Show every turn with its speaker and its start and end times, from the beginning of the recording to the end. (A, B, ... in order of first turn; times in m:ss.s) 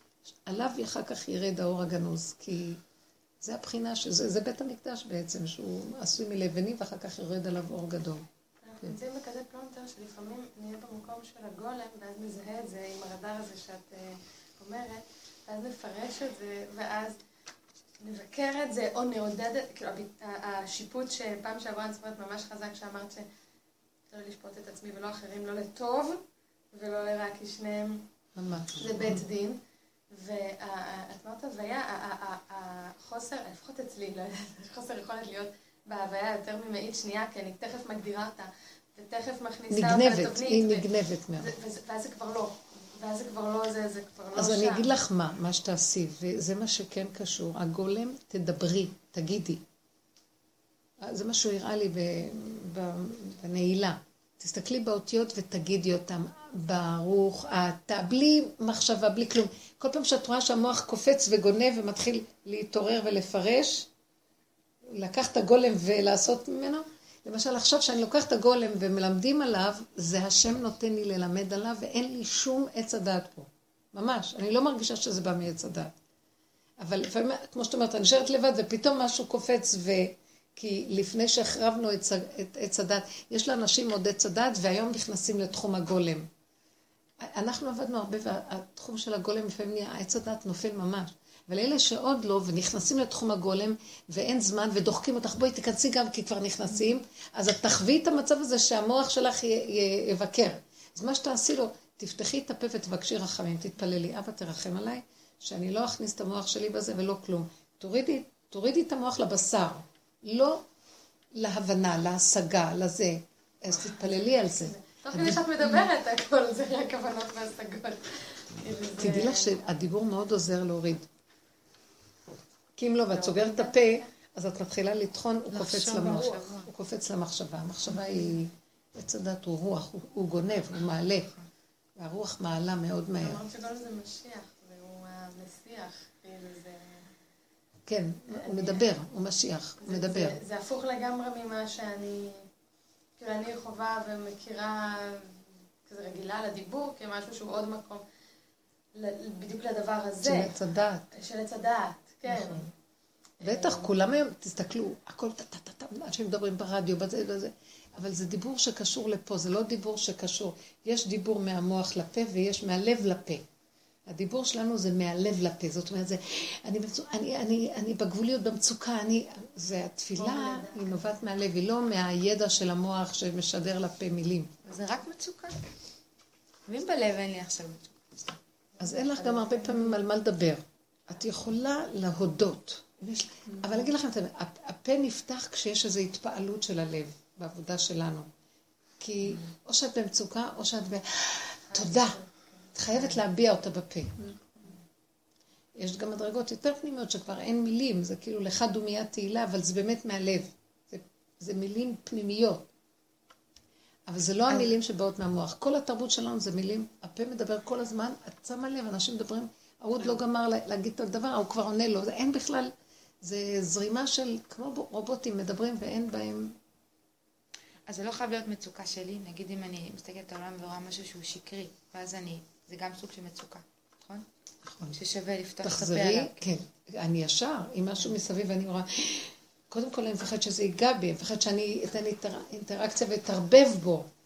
0:00.4-0:02.8 A
0:03.4-0:08.2 A
0:08.6-0:17.2 B
0:18.0-0:23.3 B
0:24.1-0:26.2 B
0:26.7-0:28.1 B
0:28.4-0:29.2 A
0:28.8-0:44.9 B
0:39.7-0:41.5 A
0:44.3-0:49.6 A
0:51.0-1:03.9 A
1:04.9-1:15.9 A
1:16.8-1:26.3 A
1:27.2-1:50.6 A
1:51.3-1:55.8 A
1:53.8-1:59.6 B
1:59.0-2:01.1 A
2:02.8-2:11.3 A
2:03.1-2:04.0 B
2:05.5-2:06.7 C
2:12.0-2:13.4 A
2:13.2-2:17.1 B
2:17.9-2:20.4 A
2:18.3-2:18.8 B
2:19.8-2:22.4 B
2:23.2-2:28.0 B
2:28.9-2:30.6 B
2:30.2-2:31.1 A
2:31.1-2:32.6 B
2:32.2-2:32.6 A
2:33.4-2:33.9 B
2:33.4-2:43.4 A
2:44.1-2:54.5 A
2:50.2-2:51.2 B
2:54.6-2:55.6 C
2:56.7-2:58.4 C
2:58.8-2:59.9 B
2:58.8-3:08.3 A
3:09.0-3:12.2 A
3:11.7-3:12.0 C
3:12.7-3:14.3 A
3:15.8-3:22.7 A
3:24.1-3:36.5 A
3:37.9-3:44.3 C
3:44.6-3:45.0 A
3:45.0-3:46.5 C
3:45.6-3:54.1 A